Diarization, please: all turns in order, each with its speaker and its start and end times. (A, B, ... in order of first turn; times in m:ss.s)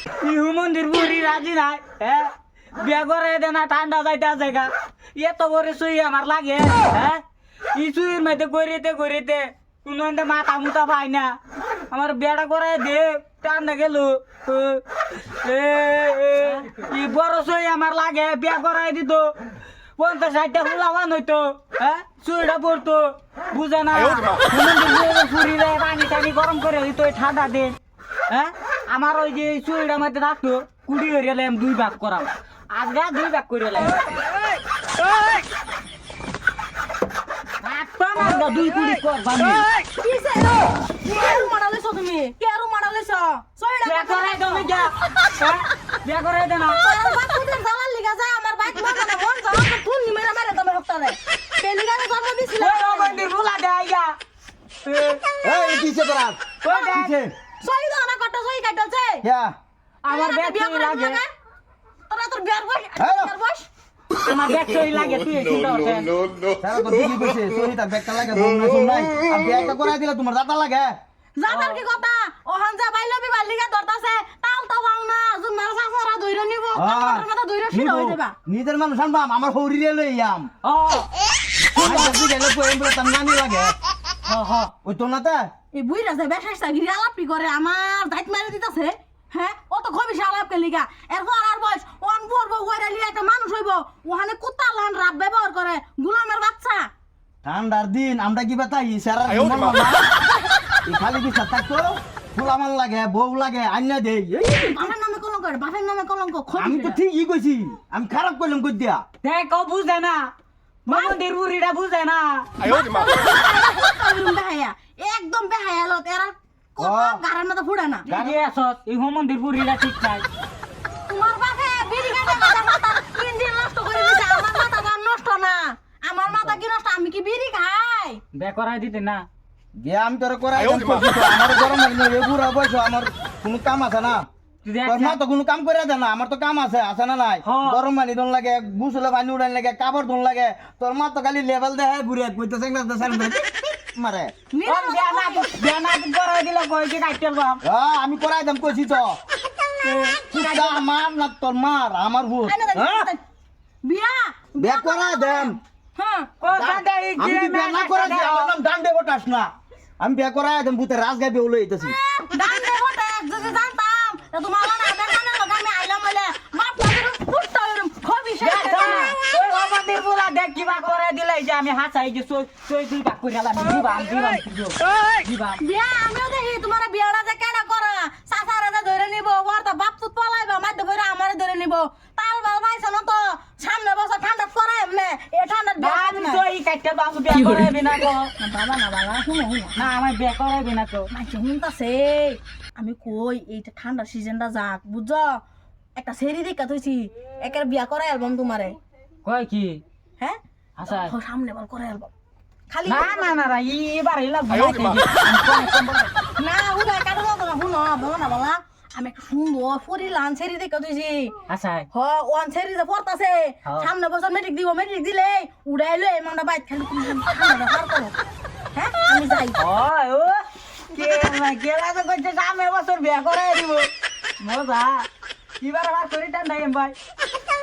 0:00.2-0:07.2 A
0:07.7-0:11.4 A
0:11.9-0:19.4 A
0:20.0-0:27.8 A
0:28.3-0:34.0 A
0:37.6-0:39.6 A
0:40.0-0:44.8 B
0:43.8-0:46.8 A
0:46.8-0:53.2 B
0:52.6-0:54.2 A
0:54.8-0:55.2 A
0:55.4-0:57.3 C
0:56.6-0:57.2 A
0:56.7-0:57.0 B
0:57.6-0:59.2 B
0:59.2-0:59.5 C
1:00.0-1:01.2 A
1:00.1-1:01.3 B
1:02.1-1:03.7 B
1:03.0-1:03.3 C
1:04.2-1:06.2 A
1:06.6-1:10.9 C
1:11.4-1:18.4 B
1:11.5-1:11.8 A
1:16.8-1:20.5 C
1:20.6-1:21.1 A
1:21.7-1:22.2 A
1:21.8-1:23.8 C
1:24.3-1:24.7 A
1:24.8-1:25.5 C
1:25.7-1:36.9 B
1:37.4-1:40.1 C
1:40.8-1:44.8 C
1:44.4-1:47.0 B
1:46.6-1:49.0 C
1:49.2-1:50.3 A
1:50.9-1:52.5 A
1:50.9-1:51.2 B
1:52.6-1:58.1 B
1:56.8-1:57.2 C
1:58.1-2:00.2 A
1:58.1-1:58.4 C
2:01.1-2:08.2 B
2:08.4-2:09.3 A
2:09.8-2:14.2 C
2:14.6-2:15.2 A
2:14.8-2:24.3 C
2:17.4-2:17.8 A
2:24.5-2:25.5 B
2:24.7-2:27.6 A
2:27.6-2:29.2 C
2:29.8-2:30.8 A
2:30.3-2:33.1 C
2:32.4-2:33.2 B
2:33.8-2:36.3 B
2:34.6-2:35.6 C
2:36.4-2:38.5 A
2:36.5-2:42.0 C
2:41.9-2:49.2 B
2:48.4-2:55.6 A
2:55.6-3:06.4 B
3:05.8-3:08.3 A
3:08.4-3:09.8 B
3:09.8-3:11.1 A
3:11.1-3:15.4 B
3:16.0-3:18.8 B
3:19.2-3:19.8 A
3:20.2-3:22.1 B
3:20.8-3:21.1 A
3:22.7-3:23.4 B
3:22.9-3:26.1 A
3:26.4-3:31.4 B
3:31.5-3:31.9 A
3:31.9-3:38.2 B
3:38.8-3:39.6 B
3:39.6-3:40.4 A
3:40.9-3:43.9 A
3:44.4-3:45.1 A
3:45.6-3:47.0 A